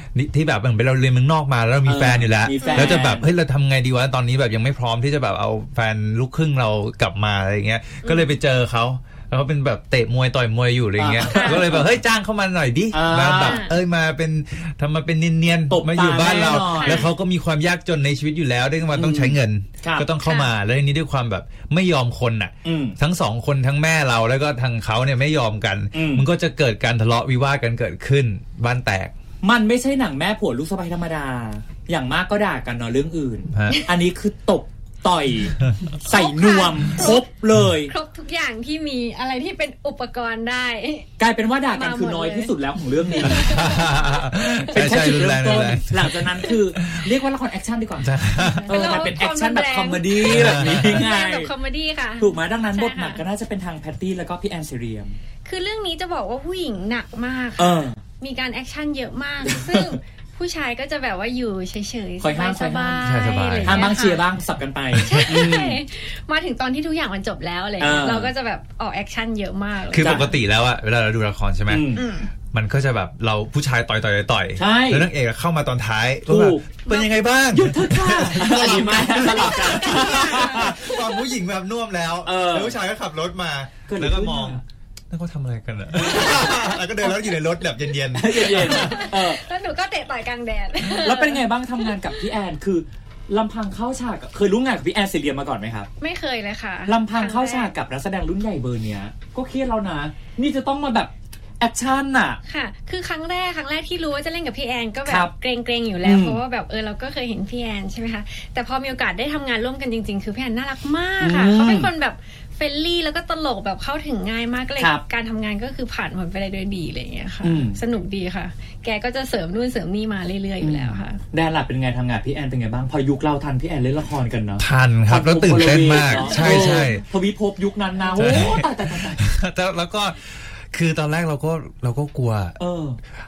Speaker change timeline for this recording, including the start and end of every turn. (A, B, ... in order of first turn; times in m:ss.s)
0:00.2-0:29.1 A
0:01.9-0:03.3 B
0:02.6-0:03.1 C
0:08.0-0:08.4 C
0:11.0-0:11.9 B
0:11.3-0:11.7 C
0:12.9-0:13.6 B
0:13.4-0:13.8 C
0:15.7-0:17.1 B
0:16.7-0:17.1 C
0:18.9-0:20.1 B
0:20.2-0:20.5 C
0:22.6-0:23.0 B
0:25.9-0:26.2 B
0:29.4-0:37.9 B
0:33.5-0:33.9 A
0:36.0-0:37.3 C
0:37.9-0:41.1 C
0:41.2-0:43.5 B
0:41.7-0:42.6 C
0:43.2-0:44.3 C
0:43.3-0:47.1 A
0:44.6-0:48.1 B
0:48.0-0:48.8 A
0:48.4-0:53.2 C
0:48.7-0:51.5 B
0:50.2-0:51.1 A
0:52.2-0:55.2 B
0:55.4-1:04.3 C
0:57.6-0:58.0 B
0:59.5-1:00.0 B
1:02.2-1:05.8 B
1:03.0-1:04.0 A
1:05.0-1:05.5 A
1:05.0-1:10.3 C
1:07.8-1:08.3 B
1:09.9-1:11.9 A
1:10.0-1:10.3 B
1:11.7-1:12.0 B
1:12.0-1:12.3 C
1:12.5-1:29.1 A
1:14.6-1:15.1 B
1:16.3-1:16.7 B
1:17.5-1:20.8 B
1:19.5-1:20.8 C
1:22.2-1:22.8 B
1:23.9-1:24.6 B
1:28.1-1:29.4 B
1:28.7-1:31.4 C
1:31.0-1:35.9 B
1:36.0-1:37.7 C
1:36.9-1:42.4 B
1:42.5-2:01.2 C
1:45.0-1:45.3 B
1:46.0-1:46.4 B
1:51.2-1:51.9 B
1:54.8-1:55.0 B
1:57.4-1:57.8 B
2:00.6-2:09.3 B
2:04.6-2:07.0 A
2:06.4-2:06.7 C
2:08.2-2:12.6 A
2:12.6-2:13.0 B